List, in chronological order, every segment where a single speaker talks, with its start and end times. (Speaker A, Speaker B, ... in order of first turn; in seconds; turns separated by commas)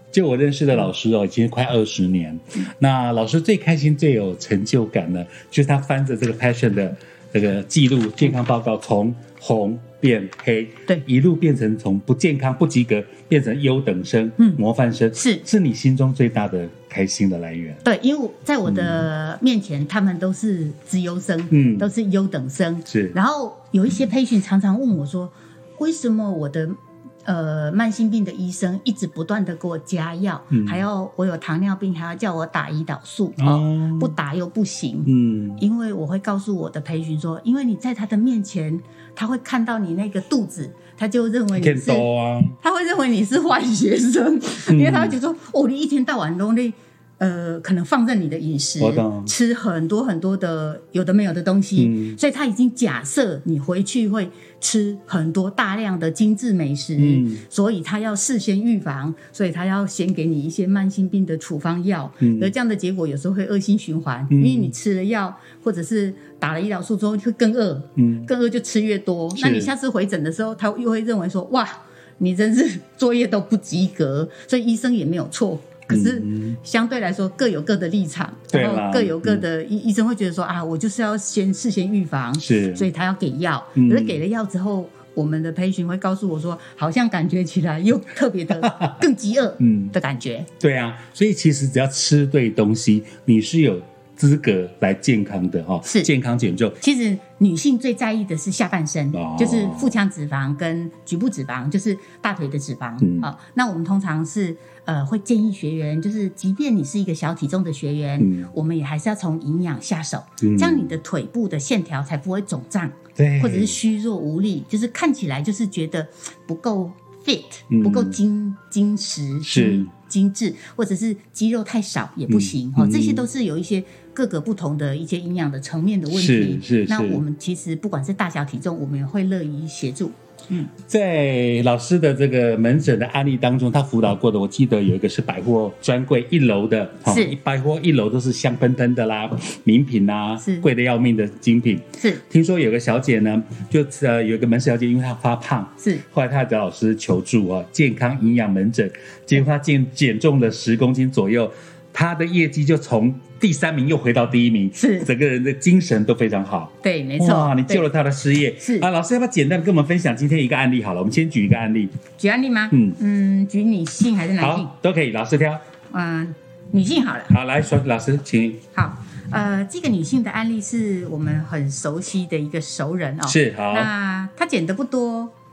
Speaker A: 0.1-17.8, Speaker B: 15.1-15.4, Speaker B: 17.8-42.1, Speaker A: 18.7-19.0, Speaker A: 21.5-21.9, Speaker A: 22.9-23.2, Speaker A: 30.5-30.9, Speaker A: 33.4-34.1, Speaker A: 35.1-35.6, Speaker A: 41.5-42.6, Speaker B: 42.6-90.5, Speaker A: 44.7-45.2, Speaker A: 48.8-49.3, Speaker A: 51.8-52.2, Speaker A: 57.0-57.4, Speaker A: 62.2-62.5, Speaker A: 64.3-64.7, Speaker A: 68.0-68.3, Speaker A: 69.3-69.7, Speaker A: 75.9-76.6, Speaker A: 78.5-79.4, Speaker A: 82.4-82.9, Speaker A: 83.8-84.2, Speaker A: 88.6-89.0, Speaker A: 89.6-90.0, Speaker A: 90.6-96.8, Speaker B: 96.8-130.7, Speaker A: 99.1-100.0, Speaker A: 103.0-103.3, Speaker A: 108.2-108.5, Speaker A: 110.4-111.0, Speaker A: 113.2-113.8, Speaker A: 117.7-118.2, Speaker A: 119.4-119.9, Speaker A: 122.3-123.3, Speaker A: 126.1-127.2, Speaker A: 130.9-162.0, Speaker B: 137.1-137.4, Speaker B: 140.4-140.7, Speaker B: 154.8-155.1, Speaker B: 156.8-157.9, Speaker B: 158.6-158.9, Speaker B: 162.2-164.7, Speaker A: 162.7-163.0, Speaker A: 164.4-165.6, Speaker B: 165.9-167.3, Speaker A: 167.3-168.7, Speaker B: 168.8-175.3, Speaker A: 173.2-173.9